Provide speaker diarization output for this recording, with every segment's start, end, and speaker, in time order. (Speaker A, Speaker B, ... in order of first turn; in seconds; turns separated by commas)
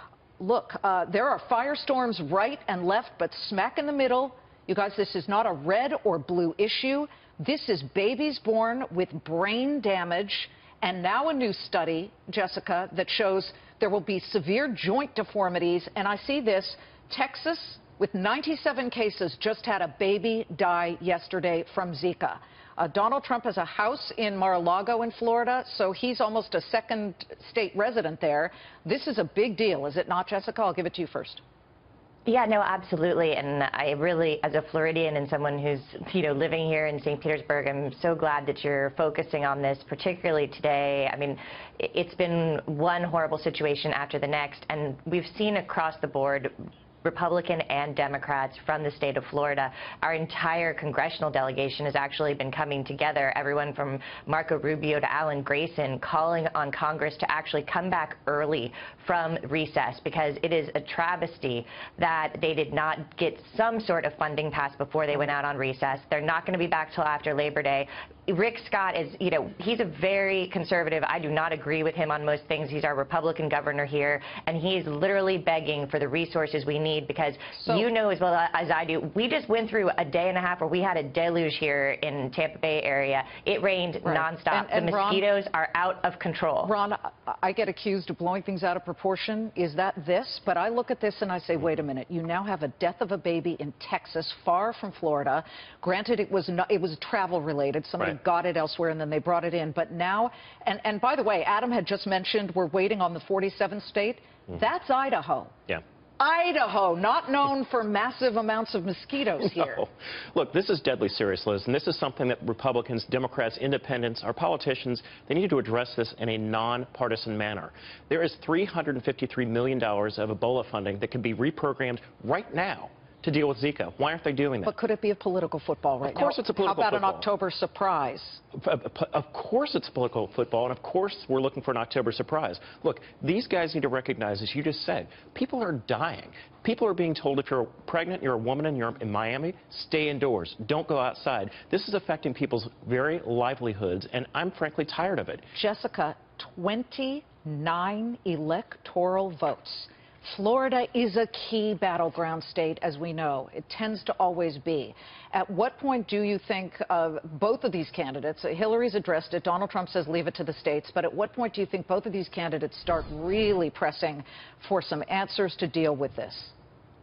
Speaker A: 0.4-31.4, Speaker B: 32.2-86.7, Speaker A: 77.6-77.9, Speaker A: 84.0-85.2, Speaker A: 86.6-109.8, Speaker C: 109.4-124.7, Speaker A: 124.7-128.4, Speaker C: 126.0-127.3, Speaker C: 128.5-145.5, Speaker A: 145.5-166.5